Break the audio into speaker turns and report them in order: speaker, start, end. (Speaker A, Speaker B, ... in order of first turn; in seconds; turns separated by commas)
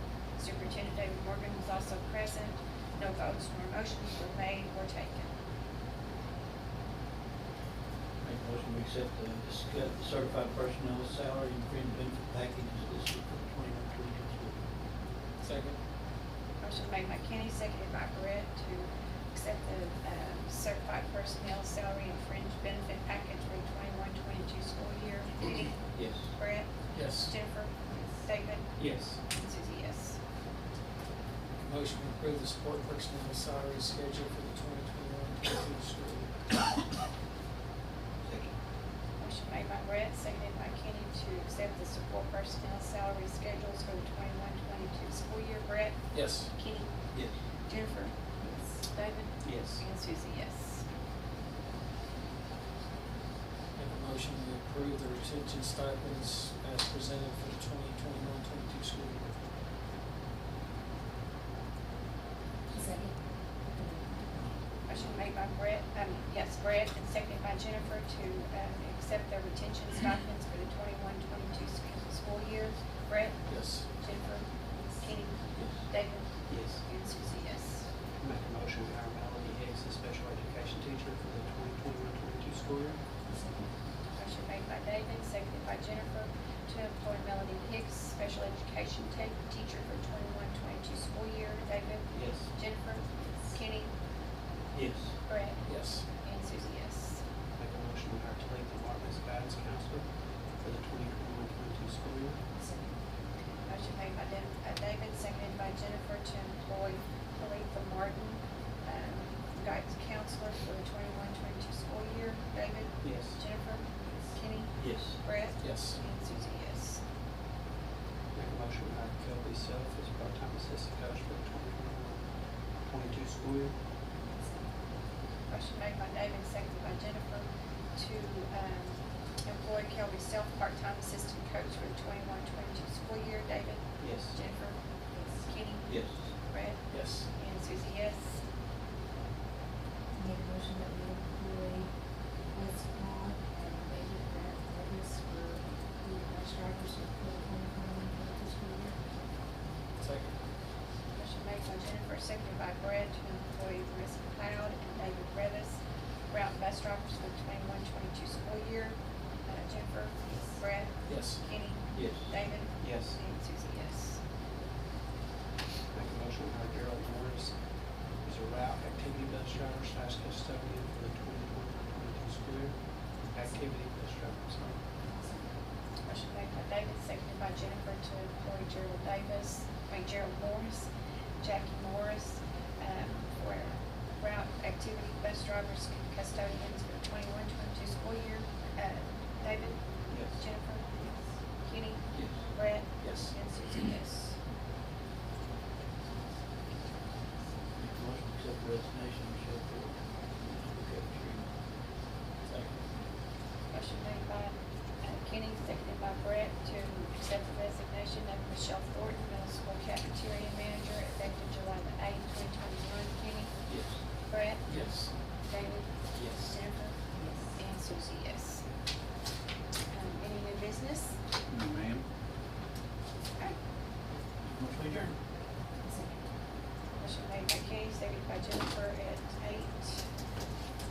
Speaker A: 0.4-5.3, Speaker B: 8.2-14.6, Speaker C: 15.4-15.8, Speaker A: 16.6-25.8, Speaker B: 25.9-26.3, Speaker A: 26.3-30.2, Speaker C: 26.9-27.3, Speaker D: 28.8-29.2, Speaker C: 31.6-36.3, Speaker B: 38.2-38.5, Speaker A: 39.2-46.0, Speaker C: 46.1-46.5, Speaker A: 46.5-46.9, Speaker A: 47.7-48.1, Speaker E: 48.4-48.7, Speaker A: 48.9-50.8, Speaker D: 49.4-49.8, Speaker C: 53.8-59.3, Speaker E: 62.7-64.2, Speaker A: 64.9-77.8, Speaker C: 73.5-73.9, Speaker D: 76.5-76.8, Speaker D: 78.2-83.0, Speaker E: 83.3-83.7, Speaker A: 84.2-93.9, Speaker B: 94.7-95.1, Speaker A: 95.3-97.2, Speaker C: 95.6-96.0, Speaker D: 97.6-100.1, Speaker D: 100.6-102.4, Speaker E: 102.6-102.9, Speaker A: 103.7-117.0, Speaker D: 113.0-113.4, Speaker B: 114.8-115.2, Speaker C: 115.6-116.0, Speaker D: 118.3-122.2, Speaker D: 122.9-123.7, Speaker E: 124.3-124.6, Speaker A: 125.5-134.8, Speaker E: 135.1-135.4, Speaker A: 135.4-135.9, Speaker B: 135.9-136.2, Speaker A: 136.4-138.4, Speaker C: 136.9-137.3, Speaker E: 140.2-141.9, Speaker E: 142.5-149.0, Speaker C: 150.0-150.3, Speaker A: 151.1-164.2, Speaker C: 161.1-161.4, Speaker B: 161.9-162.3, Speaker D: 162.8-163.2, Speaker D: 165.9-167.5, Speaker D: 168.2-172.7, Speaker D: 173.3-174.8, Speaker E: 175.1-175.4, Speaker A: 176.0-180.9, Speaker A: 181.4-191.1, Speaker A: 191.6-194.3, Speaker B: 192.1-192.4, Speaker C: 193.0-193.3, Speaker B: 197.8-201.5, Speaker C: 202.5-202.8, Speaker A: 203.7-213.5, Speaker B: 213.7-214.0, Speaker A: 214.3-214.6, Speaker C: 214.7-215.1, Speaker A: 215.5-216.9, Speaker B: 216.2-216.4, Speaker E: 217.1-217.4, Speaker A: 217.5-218.6, Speaker A: 219.9-221.2, Speaker B: 221.5-222.0, Speaker B: 224.4-225.2, Speaker E: 225.8-226.2, Speaker A: 227.0-230.0